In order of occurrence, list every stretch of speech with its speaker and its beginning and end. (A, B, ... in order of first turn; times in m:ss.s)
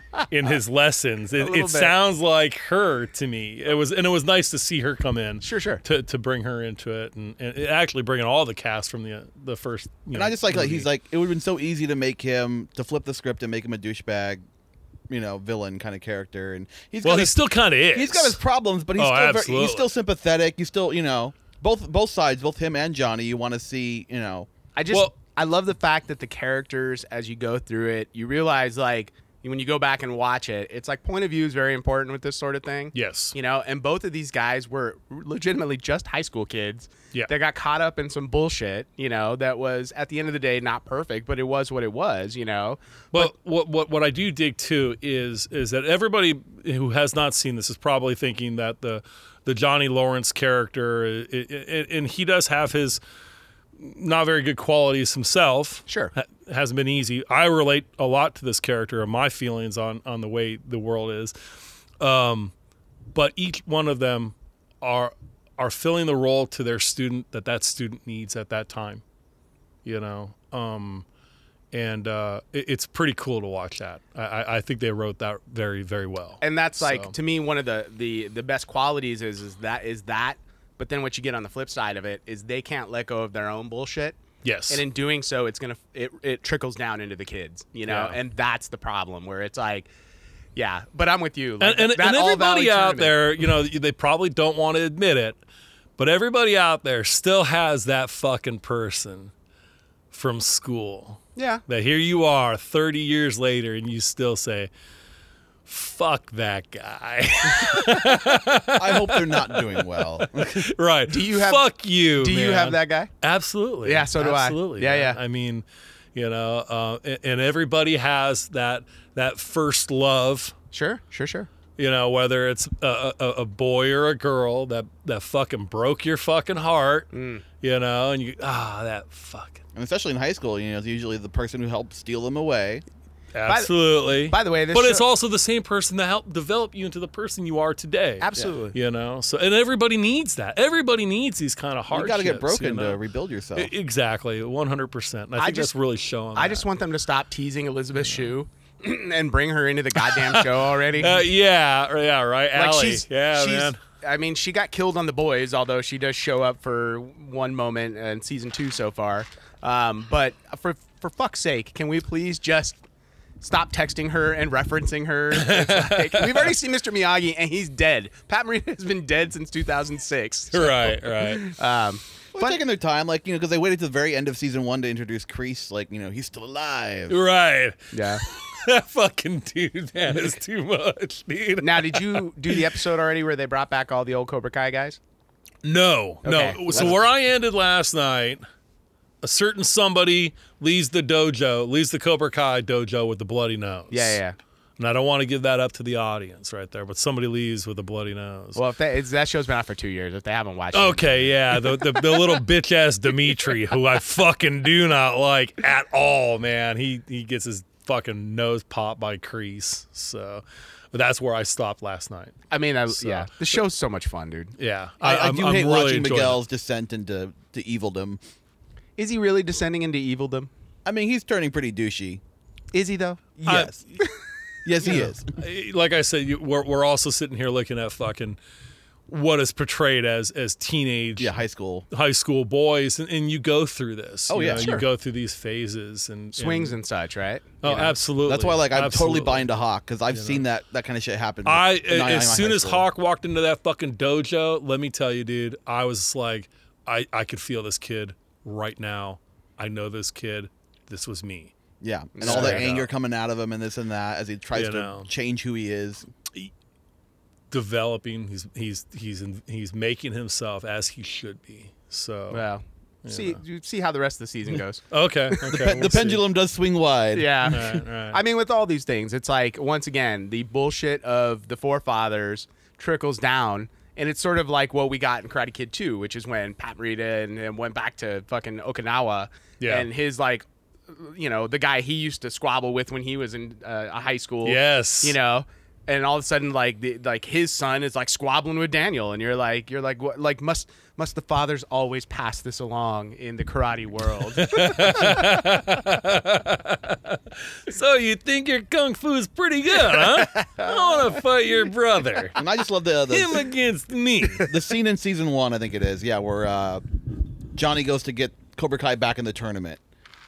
0:00.3-0:10.9 A
0:01.4-0:01.9 B
0:05.4-0:05.8 B
0:10.1-0:14.4 C
0:15.1-0:17.4 C
0:17.0-0:18.4 A
0:17.9-0:24.5 C
0:19.0-0:19.9 A
0:24.8-0:43.3 B
0:32.9-0:33.3 A
0:43.1-0:53.0 A
0:53.8-1:01.3 A
0:55.9-0:56.1 B
1:02.0-1:02.5 A
1:03.1-1:09.0 A
1:09.8-1:11.0 A
1:11.7-1:17.1 A
1:16.4-1:24.2 B
1:24.4-1:24.8 A
1:24.7-1:29.9 B
1:27.9-1:28.2 A
1:30.5-1:33.2 B
1:31.6-1:35.4 A
1:36.0-1:39.3 A
1:40.1-1:44.7 A
1:41.4-1:41.6 B
1:45.6-1:55.6 A
1:48.7-1:50.7 C
1:51.1-1:51.6 B
1:52.2-1:53.1 B
1:53.8-1:55.2 B
1:56.1-2:00.5 A
2:00.7-2:01.5 B
2:01.8-2:09.6 A
2:07.1-2:07.4 B
2:09.7-2:12.8 C
2:13.3-2:23.0 A
2:13.5-2:15.0 B
2:18.2-2:18.8 B
2:21.9-2:23.7 C
2:23.5-2:26.6 A
2:25.4-2:25.7 B
2:26.3-2:31.2 B
2:30.0-2:33.8 A
2:32.5-2:42.8 B
2:43.4-2:52.6 B
2:45.3-2:46.5 A
2:50.5-2:51.5 A
2:52.3-2:57.2 C
2:57.1-3:02.7 A
2:57.9-2:58.2 B
3:01.6-3:05.0 B
3:05.6-3:08.4 A
3:06.2-3:07.0 B
3:09.2-3:14.2 A
3:13.9-3:14.4 B
3:14.8-3:18.6 A
3:18.5-3:21.8 B
3:20.7-3:33.3 A
3:32.5-3:34.5 B
3:34.6-3:36.4 A
3:35.0-3:38.2 C
3:39.0-3:40.5 B
3:40.8-3:42.2 C
3:42.7-3:44.1 B
3:43.4-3:43.7 C
3:43.5-3:43.8 A
3:44.6-3:45.2 C
3:44.8-3:48.4 A
3:49.1-3:51.4 A
3:51.2-3:51.8 C
3:51.9-3:56.8 A
3:54.3-3:54.8 C
3:54.5-3:54.8 B
3:56.3-3:57.9 B
3:57.6-3:59.5 A
3:58.2-4:02.8 C
4:00.1-4:00.4 A
4:01.4-4:11.5 A
4:11.8-4:16.1 C
4:12.1-4:12.7 B
4:12.2-4:12.9 A
4:14.5-4:15.1 A
4:17.5-4:22.4 A
4:22.3-4:24.8 B
4:23.0-4:23.4 A
4:24.9-4:26.2 A
4:25.5-4:27.7 C
4:27.1-4:55.2 B
4:27.4-4:28.2 A
4:39.6-4:39.9 A
4:44.4-4:45.2 A
4:54.4-5:02.4 A
4:59.9-5:01.1 B
5:02.3-5:03.4 C
5:03.1-5:04.5 A
5:04.4-5:06.8 C
5:07.5-5:09.8 C